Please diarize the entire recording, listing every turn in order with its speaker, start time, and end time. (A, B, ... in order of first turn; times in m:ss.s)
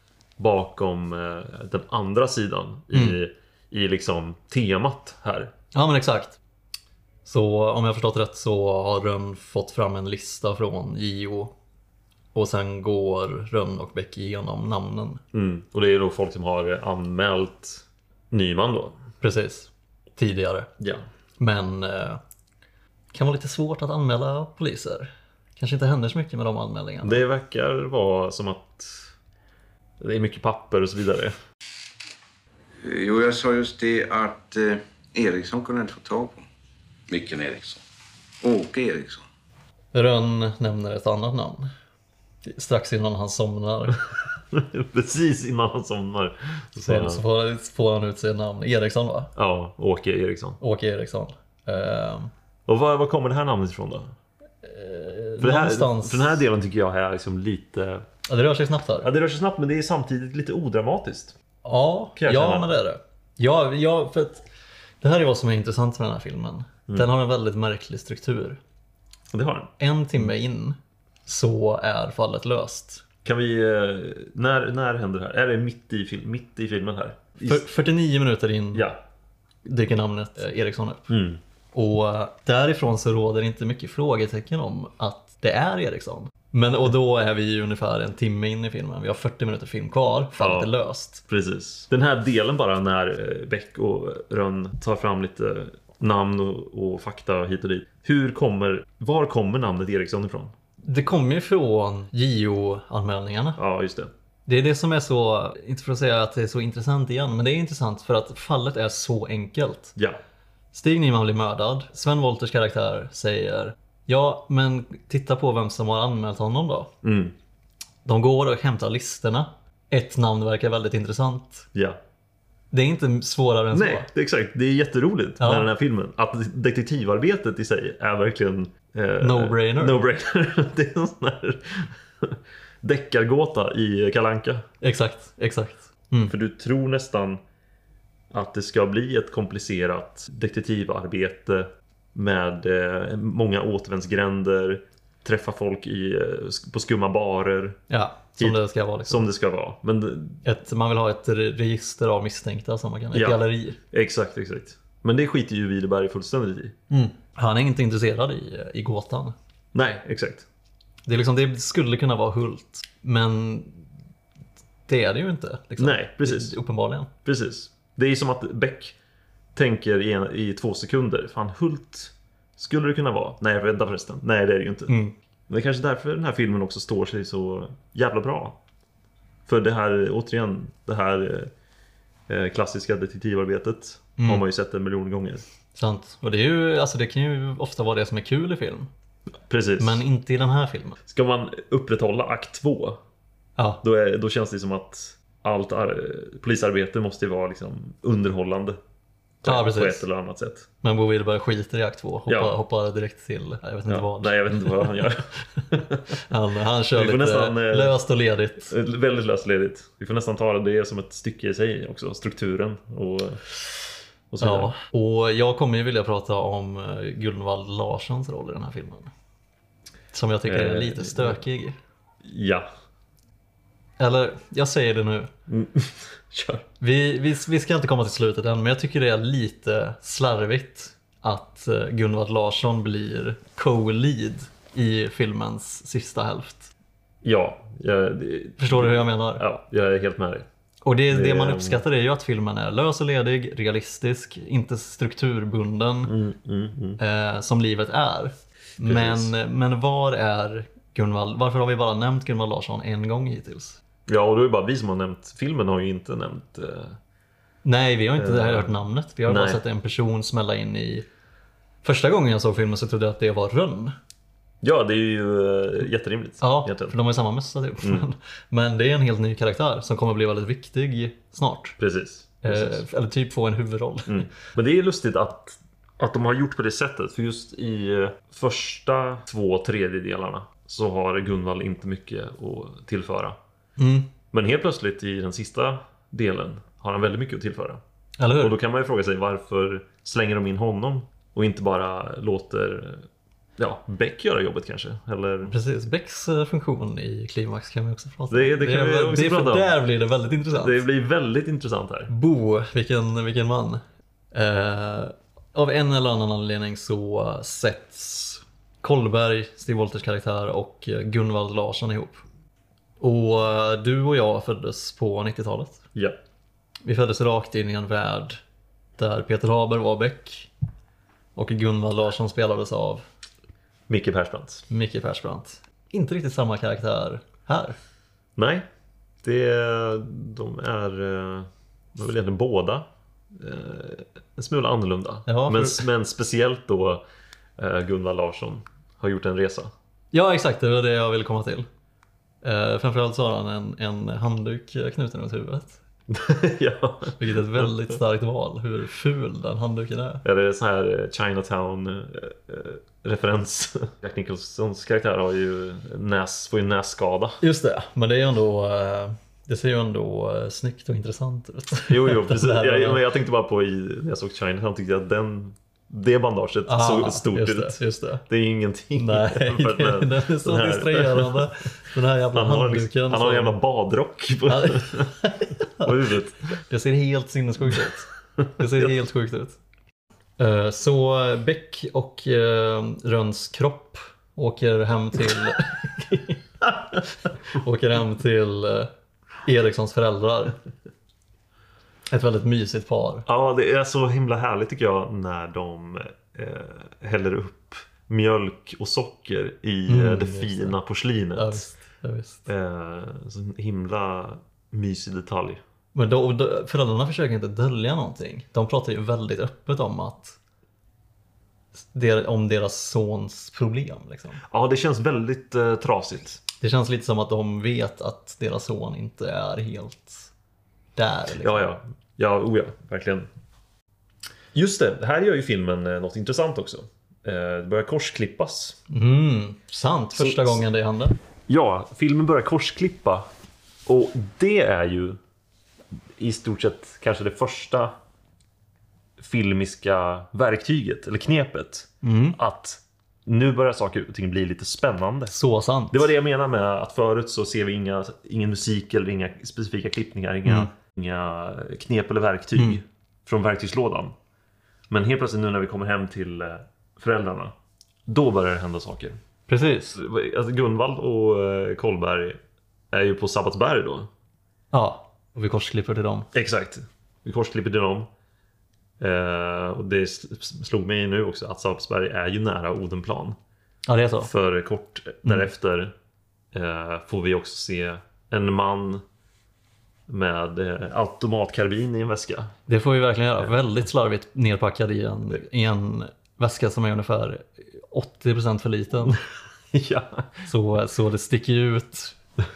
0:00.4-0:05.5 A
0:02.9-0:03.2 B
0:05.7-0:06.4 B
0:07.2-0:11.5 B
0:12.3-0:15.2 B
0:15.3-0:19.0 A
0:19.2-0:20.7 B
0:21.4-0:22.2 B
0:23.1-0:27.2 B
0:27.0-0:29.1 A
0:30.0-0:31.4 A
0:32.8-0:36.5 C
0:37.1-0:37.8 C
0:38.4-0:39.2 C
0:39.9-0:41.7 B
0:42.5-0:44.0 B
0:44.5-0:47.2 A
0:46.8-0:49.3 B
0:49.4-0:50.6 A
0:50.6-0:52.3 B
0:52.7-0:54.1 A
0:54.6-0:56.4 B
0:55.4-0:58.1 A
0:58.3-0:59.1 B
0:59.0-1:01.4 A
1:01.6-1:04.4 B
1:02.2-1:02.7 A
1:05.0-1:08.6 B
1:09.3-1:09.7 A
1:09.8-1:13.0 B
1:13.2-1:17.6 A
1:17.4-1:18.9 B
1:18.7-1:19.0 A
1:19.6-1:21.1 B
1:21.1-1:21.4 A
1:21.7-1:31.2 B
1:30.4-1:30.7 A
1:31.3-1:40.5 A
1:40.8-1:43.6 B
1:43.6-1:44.1 A
1:44.5-1:50.0 B
1:50.7-1:56.9 B
1:57.0-1:57.4 A
1:58.0-2:01.7 B
2:01.7-2:02.0 A
2:02.7-2:04.1 B
2:03.7-2:14.7 A
2:05.4-2:05.7 B
2:09.2-2:10.0 B
2:14.8-2:16.3 B
2:16.3-2:17.4 A
2:18.3-2:27.8 A
2:27.9-2:29.2 B
2:28.4-2:30.4 A
2:30.4-2:33.8 B
2:33.1-2:36.8 A
2:36.9-2:39.4 B
2:39.7-2:40.5 A
2:41.1-2:43.9 B
2:44.9-2:47.1 B
2:45.8-2:46.6 A
2:47.2-2:49.0 A
2:49.6-2:55.0 A
2:54.9-2:55.2 B
2:55.5-2:58.6 A
2:59.5-3:01.5 A
3:02.3-3:05.4 A
3:04.2-3:04.4 B
3:05.8-3:08.9 B
3:09.5-3:10.0 A
3:09.8-3:11.0 B
3:11.1-3:13.0 A
3:13.6-3:13.8 B
3:13.8-3:18.8 A
3:19.4-3:20.7 A
3:19.4-3:20.0 B
3:20.8-3:24.9 B
3:22.3-3:22.6 A
3:23.9-3:26.1 A
3:26.2-3:28.7 B
3:26.9-3:28.0 A
3:28.7-3:33.6 A
3:34.3-3:34.7 A
3:34.4-3:39.1 B
3:40.1-3:41.8 B
3:40.5-3:41.4 A
3:42.2-3:42.7 A
3:44.0-3:45.3 B
3:45.5-3:46.6 A
3:46.8-3:56.7 B
3:57.2-4:00.5 A
3:58.6-3:59.4 B
4:00.8-4:06.1 B
4:01.1-4:01.8 A
4:06.1-4:07.0 A
4:07.0-4:13.8 B
4:08.8-4:09.3 A
4:14.1-4:17.0 A
4:17.6-4:21.0 B
4:18.2-4:18.7 A
4:19.3-4:19.6 A
4:21.8-4:24.0 B
4:24.6-4:27.0 A
4:26.4-4:31.8 B
4:31.8-4:32.8 A
4:32.4-4:34.3 B
4:34.1-4:43.4 A
4:43.8-4:44.1 B
4:44.3-4:47.8 A
4:48.2-4:48.6 B
4:48.4-4:53.1 A
4:53.6-4:55.6 A
4:55.4-5:00.8 B
4:58.3-4:59.8 A
5:00.5-5:02.1 A
5:02.1-5:12.2 B
5:13.0-5:15.8 B
5:16.8-5:18.4 B
5:19.0-5:20.5 B
5:21.4-5:23.0 B
5:23.9-5:24.7 A
5:24.7-5:27.8 B
5:28.4-5:28.7 A
5:29.2-5:37.0 A
5:35.3-5:35.8 B
5:37.6-5:39.7 A
5:40.1-5:41.7 B
5:42.4-5:45.8 B
5:46.1-5:47.7 A
5:47.2-5:50.2 B
5:50.2-5:57.4 A
5:57.4-6:03.0 B
6:01.9-6:11.5 A
6:06.7-6:08.2 B
6:09.0-6:13.6 B
6:12.3-6:15.1 A
6:14.5-6:15.9 B
6:15.8-6:16.5 A
6:16.6-6:19.6 B
6:20.4-6:28.9 B
6:29.4-6:30.6 B
6:32.1-6:33.3 B
6:33.3-6:41.7 A
6:39.9-6:40.8 B
6:41.4-6:42.5 B
6:42.5-6:45.6 A
6:45.9-6:50.4 B
6:51.9-6:54.4 B
6:54.5-6:56.4 A
6:56.6-7:00.3 B
7:01.0-7:01.8 B
7:01.4-7:03.3 A
7:04.5-7:08.8 A
7:08.9-7:11.2 B
7:10.2-7:10.6 A
7:11.5-7:13.3 A
7:13.9-7:15.2 A
7:16.2-7:18.0 A
7:19.2-7:25.4 A
7:22.0-7:22.4 B
7:25.3-7:26.1 B
7:25.9-7:34.2 A
7:30.4-7:30.7 B
7:34.9-7:37.5 A
7:38.1-7:39.2 A
7:39.5-7:40.0 B
7:40.0-7:42.4 A
7:42.9-7:44.1 A
7:44.7-7:46.3 B
7:46.3-7:48.1 A
7:49.0-7:53.4 A
7:53.9-7:54.3 B
7:54.2-7:55.9 A
7:56.5-7:59.0 A
8:00.1-8:02.5 A
8:02.7-8:09.2 B
8:09.7-8:10.5 A
8:10.5-8:12.2 B